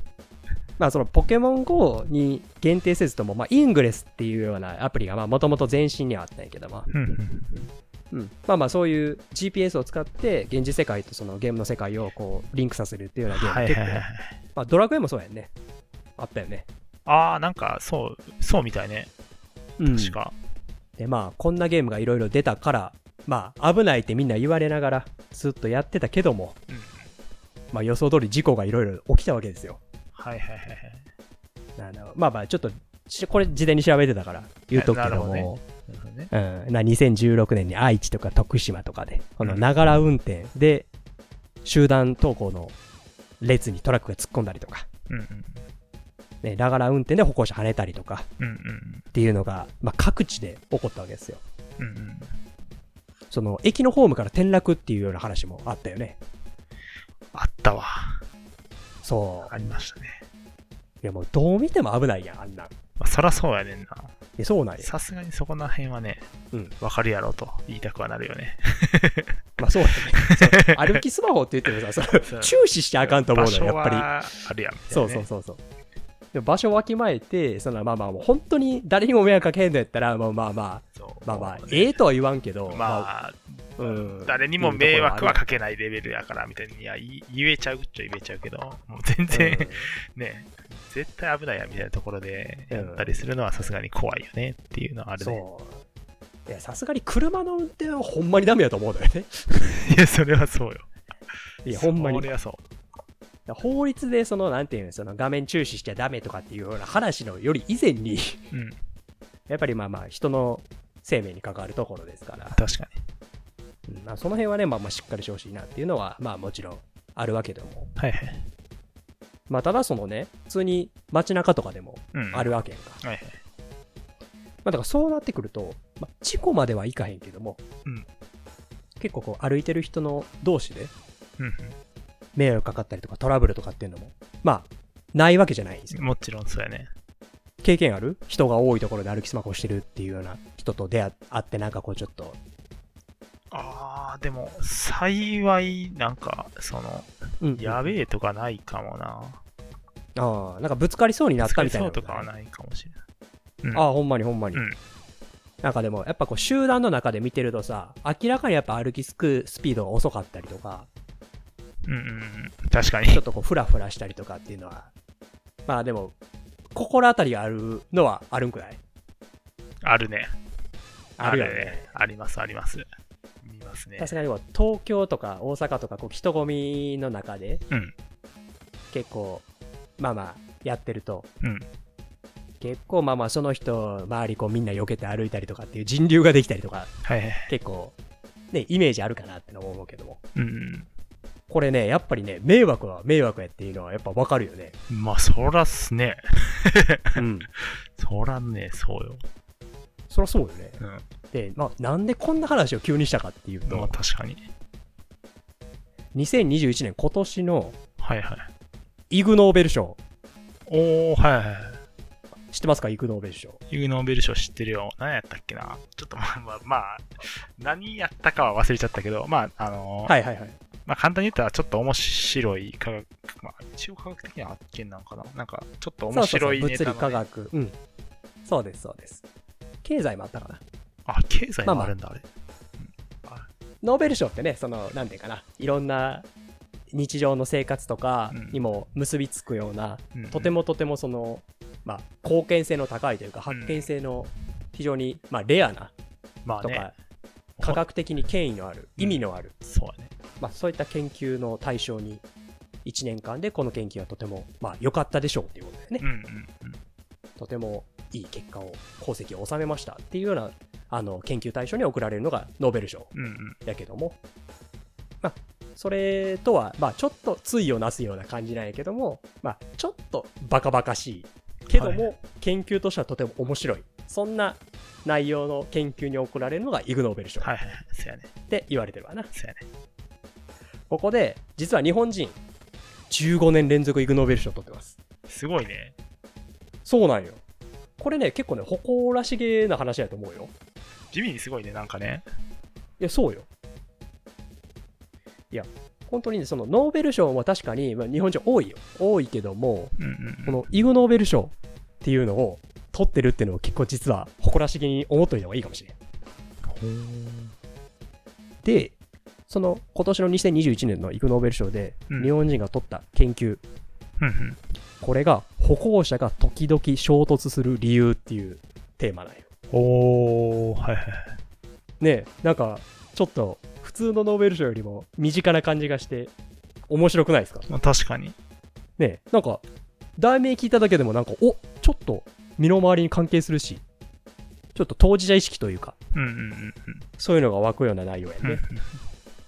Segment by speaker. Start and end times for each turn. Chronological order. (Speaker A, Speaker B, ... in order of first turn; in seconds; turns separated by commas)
Speaker A: 0.8-7.0, Speaker B: 6.9-7.7, Speaker A: 8.1-15.5, Speaker B: 13.3-14.3, Speaker A: 16.2-16.7, Speaker B: 17.1-19.1, Speaker A: 19.8-20.2, Speaker B: 19.9-20.4, Speaker A: 21.0-26.6, Speaker B: 26.7-27.1, Speaker A: 27.7-29.8, Speaker B: 30.1-31.1, Speaker A: 31.8-35.6, Speaker B: 34.7-36.3, Speaker A: 36.3-40.9, Speaker B: 39.4-39.7, Speaker A: 41.6-42.8, Speaker A: 43.4-44.9, Speaker B: 45.1-45.6, Speaker A: 46.4-48.3, Speaker B: 48.4-49.0, Speaker A: 49.1-51.4, Speaker B: 51.8-52.4, Speaker A: 53.3-56.2, Speaker B: 57.3-58.2, Speaker A: 59.0-59.5, Speaker B: 59.4-60.2, Speaker A: 61.0-62.7, Speaker B: 63.0-64.1, Speaker A: 64.4-64.9, Speaker B: 64.8-66.3, Speaker B: 66.8-69.3, Speaker A: 69.6-74.1, Speaker B: 70.3-70.9, Speaker B: 72.2-75.3, Speaker A: 74.9-75.6, Speaker A: 76.3-83.1, Speaker B: 81.0-82.0, Speaker B: 82.7-95.4, Speaker A: 83.8-85.4, Speaker A: 89.3-89.9, Speaker A: 92.7-93.1, Speaker A: 95.2-95.8, Speaker A: 96.5-99.5, Speaker B: 99.9-100.9, Speaker A: 101.7-102.3, Speaker B: 101.7-102.6, Speaker A: 103.5-108.5, Speaker A: 109.5-112.6, Speaker B: 112.5-113.0, Speaker A: 113.9-117.9, Speaker B: 118.0-118.5, Speaker A: 119.5-123.0, Speaker B: 122.1-123.4, Speaker A: 124.6-127.6, Speaker A: 129.0-130.9, Speaker B: 131.4-131.8, Speaker A: 132.3-136.1, Speaker B: 135.9-136.9, Speaker A: 137.6-142.4, Speaker B: 143.5-149.4, Speaker A: 147.4-147.9, Speaker A: 150.2-152.3, Speaker B: 151.4-153.0, Speaker A: 153.7-154.7, Speaker B: 154.5-154.8, Speaker A: 155.6-160.9, Speaker B: 161.9-163.2, Speaker A: 163.1-164.9, Speaker A: 165.7-166.2, Speaker A: 166.7-168.8, Speaker B: 169.8-170.3, Speaker A: 171.2-171.9, Speaker B: 171.2-172.9, Speaker B: 173.4-174.2, Speaker A: 174.0-177.6, Speaker A: 178.9-179.5, Speaker A: 180.0-181.3, Speaker B: 181.4-181.7, Speaker A: 182.6-186.9, Speaker B: 187.1-187.5, Speaker A: 187.5-187.9, Speaker A: 188.5-190.2, Speaker B: 190.3-190.9, Speaker A: 191.5-194.8, Speaker B: 194.9-197.2, Speaker A: 197.2-197.5, Speaker B: 198.0-199.2, Speaker A: 200.1-203.9, Speaker B: 200.8-201.1, Speaker B: 203.7-204.4, Speaker A: 206.1-207.8, Speaker B: 208.0-208.5, Speaker A: 209.1-210.0, Speaker B: 210.7-211.8, Speaker A: 212.5-213.6, Speaker B: 213.7-220.2, Speaker A: 220.1-220.6, Speaker B: 220.9-227.2, Speaker A: 226.1-227.8, Speaker A: 228.4-229.2, Speaker A: 229.8-230.6, Speaker B: 231.1-232.2, Speaker A: 231.6-231.9, Speaker A: 233.8-236.3, Speaker A: 236.9-245.9, Speaker B: 238.3-238.6, Speaker B: 240.2-240.5, Speaker B: 243.5-243.9, Speaker B: 246.4-246.9, Speaker A: 246.6-246.9, Speaker A: 247.6-249.6, Speaker B: 249.0-250.1, Speaker A: 250.4-252.2, Speaker A: 252.8-256.1, Speaker B: 256.0-256.8, Speaker A: 257.4-263.1, Speaker B: 263.1-263.6, Speaker A: 263.6-264.2, Speaker A: 265.2-277.5, Speaker B: 271.7-272.1, Speaker B: 277.4-278.3, Speaker A: 278.5-279.3, Speaker B: 279.3-279.6, Speaker A: 280.9-282.4, Speaker A: 283.1-285.0, Speaker B: 285.3-285.9, Speaker A: 286.9-287.4, Speaker A: 288.0-290.5, Speaker B: 291.1-292.2, Speaker A: 293.0-293.5, Speaker A: 295.5-306.0, Speaker B: 300.0-300.6, Speaker B: 306.6-307.5, Speaker A: 308.6-309.0, Speaker A: 309.5-313.6, Speaker B: 314.2-314.6, Speaker A: 315.0-319.5, Speaker B: 319.7-321.4, Speaker A: 322.0-326.3, Speaker A: 326.9-327.7, Speaker B: 327.7-328.4, Speaker A: 329.0-329.6, Speaker A: 330.2-333.8, Speaker A: 334.8-336.0, Speaker B: 336.1-337.0, Speaker A: 337.2-338.6, Speaker B: 338.4-339.0